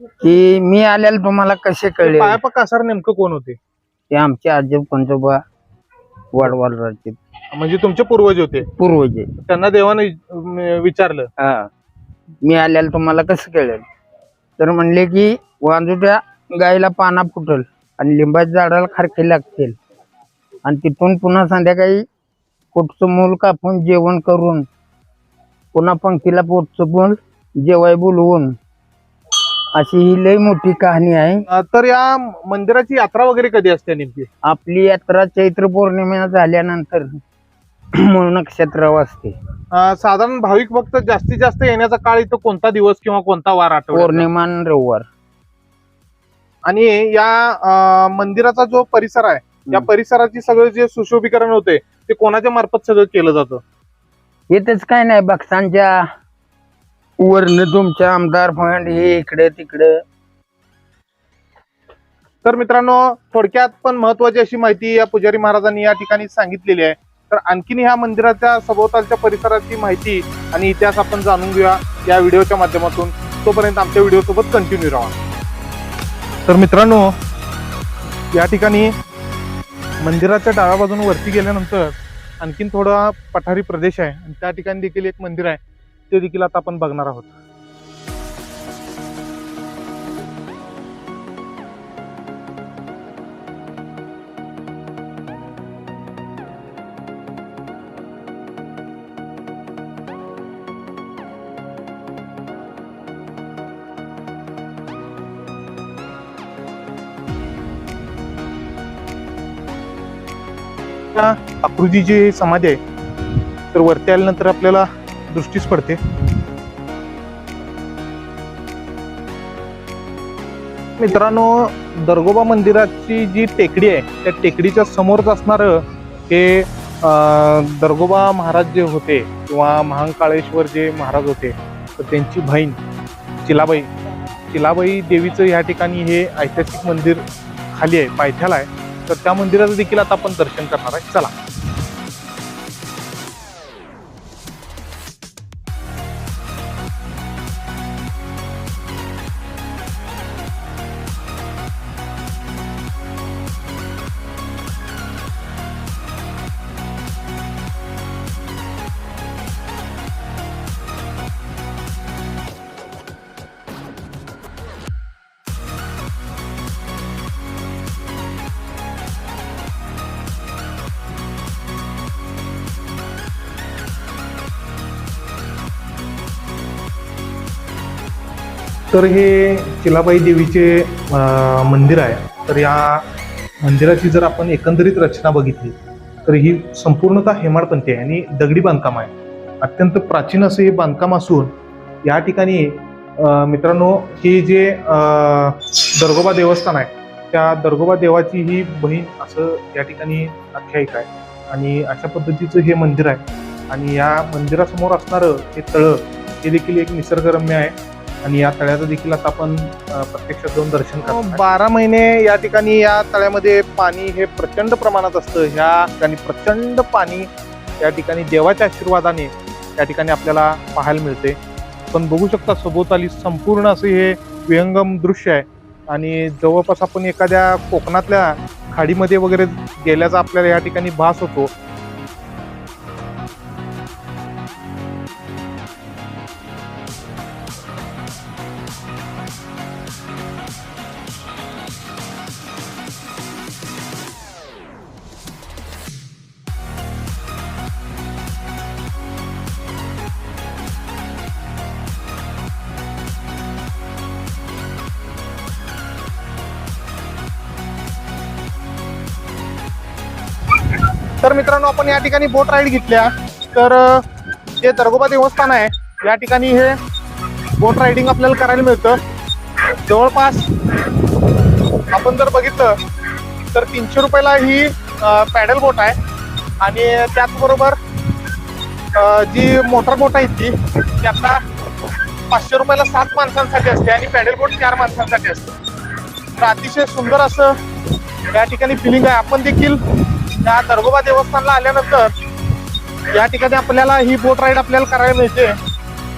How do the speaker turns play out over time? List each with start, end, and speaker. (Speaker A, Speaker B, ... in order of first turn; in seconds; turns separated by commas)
Speaker A: 0.2-2.4, Speaker B: 2.0-3.6, Speaker A: 4.1-5.4, Speaker A: 6.3-7.2, Speaker B: 7.5-8.7, Speaker A: 8.7-9.3, Speaker B: 9.4-11.3, Speaker A: 11.4-11.7, Speaker A: 12.4-13.8, Speaker A: 14.6-19.8, Speaker A: 20.6-22.0, Speaker A: 22.7-24.7, Speaker A: 25.7-28.6, Speaker A: 29.8-31.4, Speaker B: 31.5-34.3, Speaker A: 34.5-37.2, Speaker A: 38.0-39.4, Speaker B: 39.7-44.3, Speaker A: 43.9-45.1, Speaker B: 46.7-53.6, Speaker A: 54.5-56.0, Speaker A: 57.2-60.0, Speaker B: 62.4-75.2, Speaker B: 76.5-77.2, Speaker B: 78.3-78.9, Speaker B: 80.0-87.3, Speaker B: 111.1-116.4, Speaker B: 121.0-132.8, Speaker B: 133.4-133.9, Speaker B: 134.5-141.3, Speaker B: 178.9-183.1, Speaker B: 183.6-221.4, Speaker B: 221.9-231.5, Speaker B: 260.6-264.1, Speaker B: 264.6-266.8, Speaker B: 267.4-269.0, Speaker B: 269.7-272.8, Speaker B: 273.5-276.0, Speaker B: 276.6-278.2, Speaker B: 278.9-285.6, Speaker B: 286.4-287.6, Speaker B: 288.3-292.1, Speaker B: 293.1-295.6